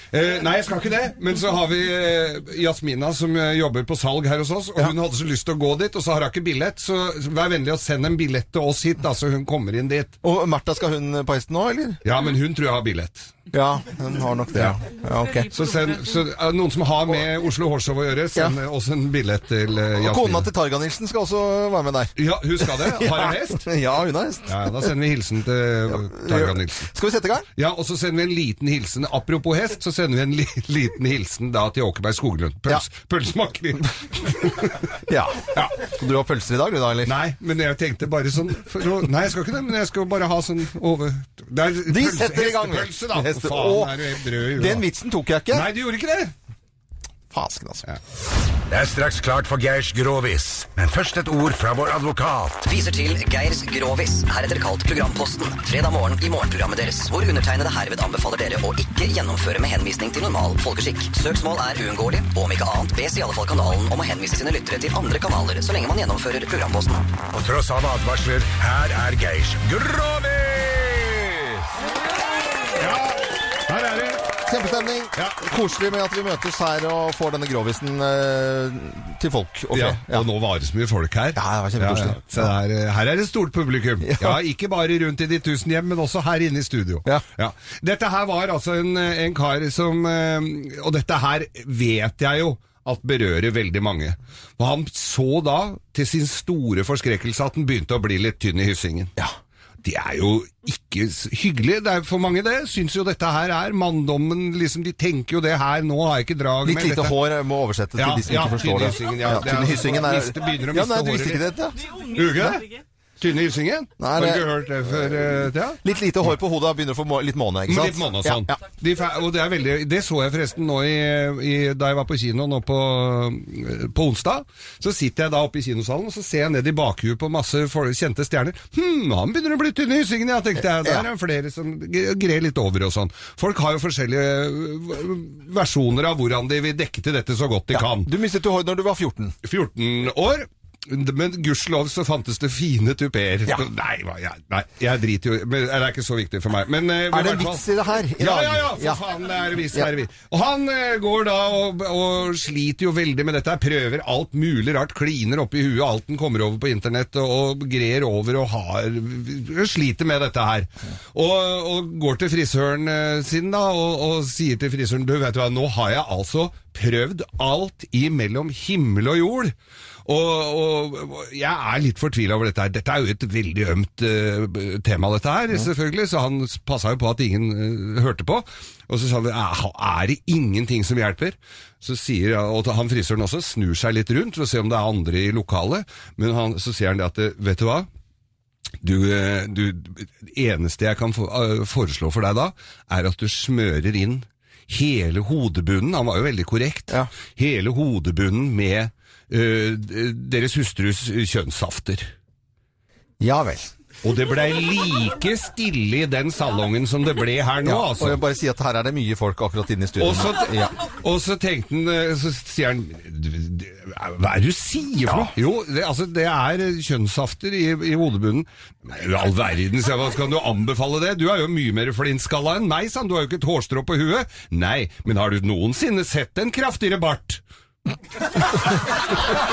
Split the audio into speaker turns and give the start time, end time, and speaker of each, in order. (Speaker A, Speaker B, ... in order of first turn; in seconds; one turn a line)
Speaker A: 0.1-10.2
Speaker B: 10.2-12.0
Speaker A: 12.0-13.3
Speaker B: 13.5-15.5
Speaker A: 15.5-20.5
Speaker B: 20.0-24.9
Speaker A: 22.1-23.7
Speaker A: 24.5-26.9
Speaker B: 25.9-27.4
Speaker A: 27.5-34.9
Speaker B: 35.0-37.1
Speaker A: 35.5-35.8
Speaker A: 37.0-44.9
Speaker B: 41.9-44.0
Speaker B: 44.5-45.7
Speaker A: 45.5-46.3
Speaker B: 47.3-47.9
Speaker C: 48.7-52.7
Speaker D: 52.6-67.2
Speaker C: 67.3-71.7
Speaker A: 72.7-74.2
Speaker B: 74.5-80.3
Speaker A: 75.2-75.5
Speaker A: 79.7-99.1
Speaker B: 81.3-82.5
Speaker B: 84.0-84.4
Speaker A: 99.8-107.3
Speaker B: 106.6-111.8
Speaker A: 108.0-111.5
Speaker A: 112.1-112.6
Speaker A: 113.2-116.3
Speaker B: 114.0-114.5
Speaker B: 115.8-118.6
Speaker A: 117.7-138.1
Speaker B: 130.6-131.1
Speaker B: 137.7-139.3
Speaker A: 139.4-147.6
Speaker B: 147.1-149.0
Speaker A: 148.2-169.5
Speaker A: 170.1-187.9
Speaker A: 188.8-202.1
Speaker B: 203.2-203.7
Speaker A: 204.0-208.2
Speaker B: 207.6-210.7
Speaker A: 210.0-227.4
Speaker A: 228.3-228.7